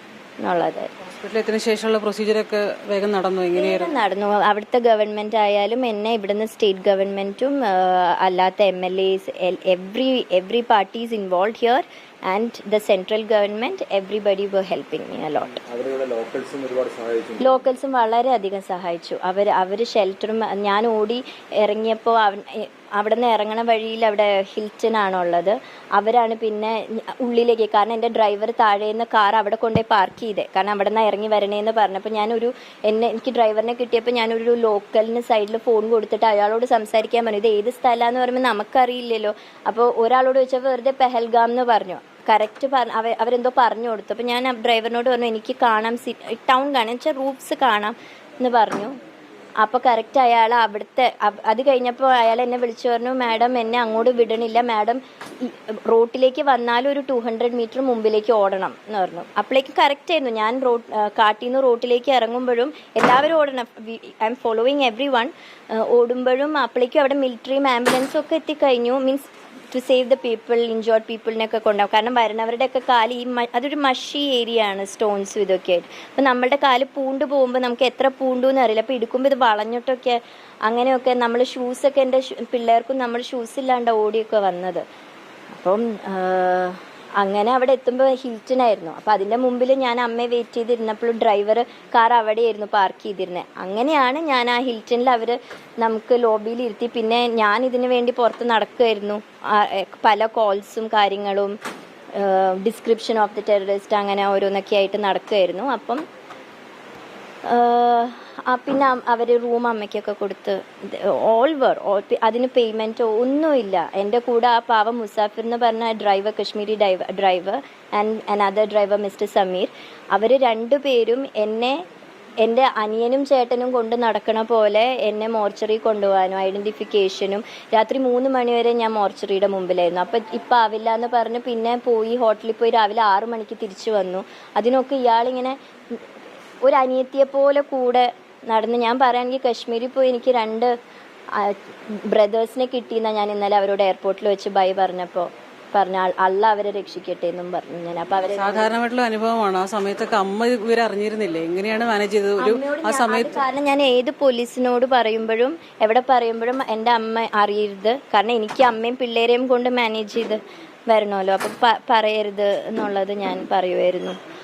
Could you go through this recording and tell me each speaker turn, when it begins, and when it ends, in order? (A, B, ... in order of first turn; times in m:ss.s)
0:00.4-0:00.9 A
0:01.0-0:03.9 B
0:03.5-0:15.5 A
0:15.5-0:17.6 C
0:17.4-0:48.9 A
0:49.6-1:24.8 A
1:25.5-1:41.6 A
1:42.1-1:46.0 A
1:47.4-2:01.8 A
2:02.4-2:16.0 A
2:16.6-2:20.8 A
2:21.3-2:28.7 A
2:28.2-2:33.4 B
2:32.4-2:44.2 A